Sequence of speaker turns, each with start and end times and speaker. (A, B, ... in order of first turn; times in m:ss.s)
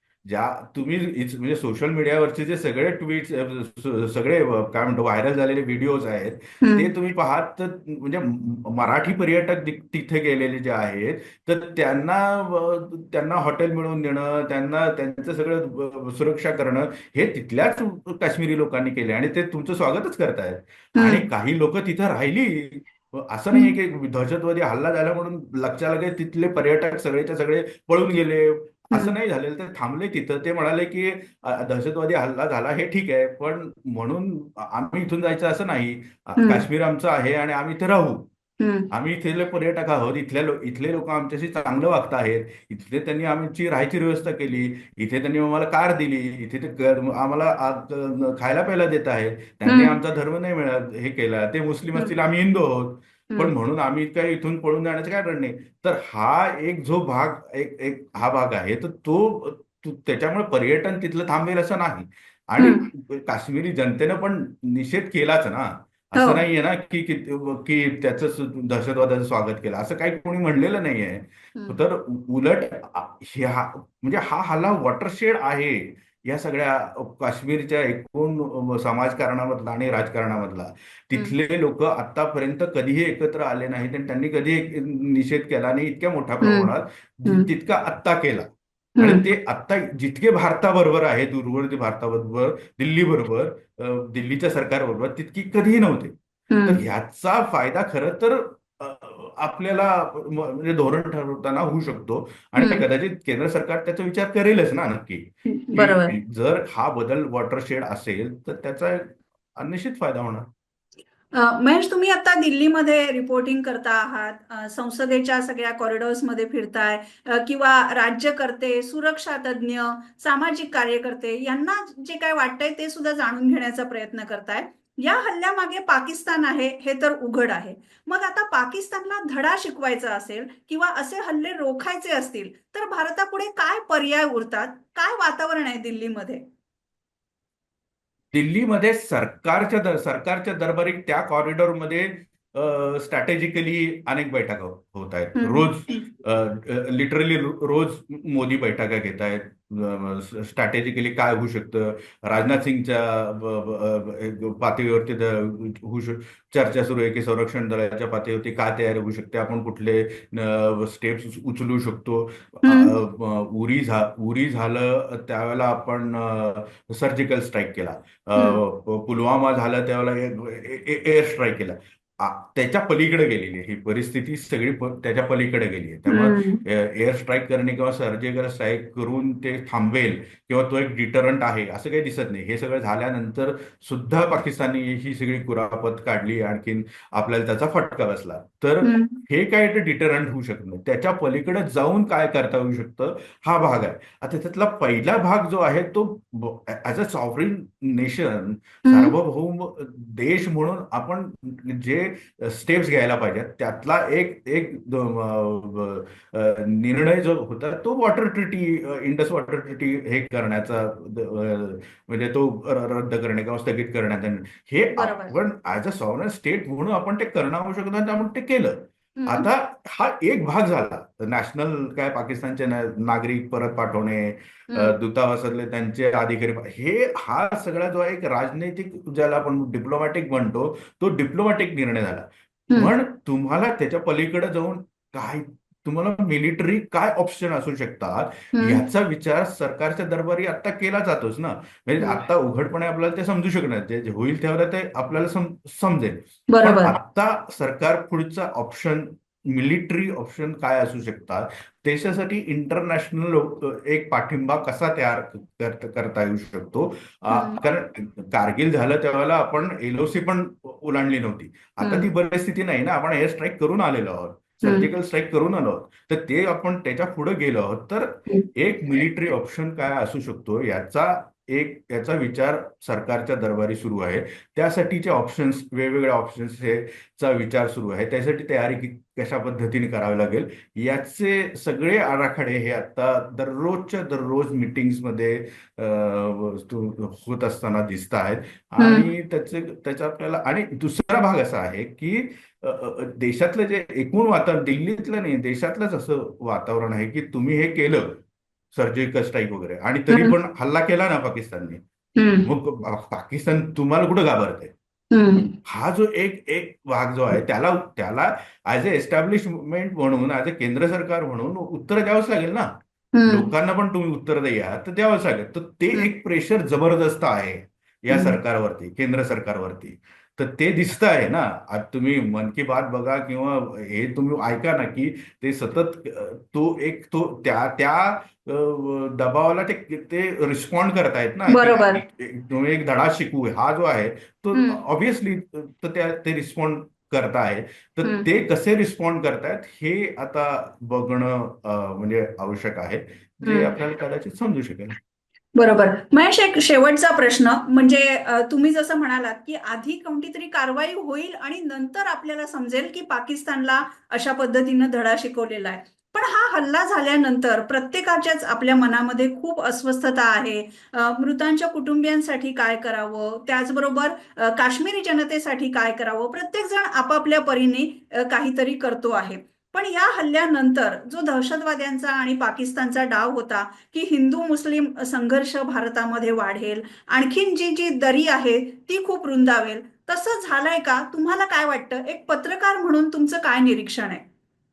0:00.2-0:38.3 A
0:06.6-0:06.9 B
0:21.0-0:21.2 B
0:36.4-0:36.7 B
0:38.6-0:38.9 B
0:38.9-1:28.5 A
0:49.7-0:50.0 B
1:02.6-1:02.9 B
1:06.2-1:06.4 B
1:26.4-1:26.7 B
1:27.3-1:27.5 B
1:29.0-1:29.2 B
1:29.0-1:36.2 A
1:36.5-1:36.8 B
1:36.7-1:50.5 A
1:42.6-1:42.8 B
1:45.5-1:46.2 B
1:51.3-2:16.4 B
2:18.3-4:58.2 A
2:25.4-2:26.1 B
2:42.6-2:43.0 B
2:48.4-2:48.6 B
2:56.1-2:56.6 B
3:08.8-3:09.2 B
3:18.8-3:19.1 B
3:35.0-3:35.4 B
3:39.2-3:39.5 B
3:58.5-3:58.8 B
4:06.5-4:07.0 B
4:17.3-4:17.6 B
4:21.8-4:22.1 B
4:24.6-4:24.9 B
4:48.8-4:49.1 B
4:58.7-5:01.8 A
5:00.1-5:00.4 B
5:02.2-5:02.5 B
5:02.4-5:04.7 A
5:05.1-5:05.5 B
5:05.6-5:12.7 A
5:13.2-5:13.5 B
5:13.3-5:45.0 A
5:18.1-5:18.4 B
5:31.5-5:32.0 B
5:34.5-5:34.8 B
5:43.4-5:43.7 B
5:45.6-6:24.2 B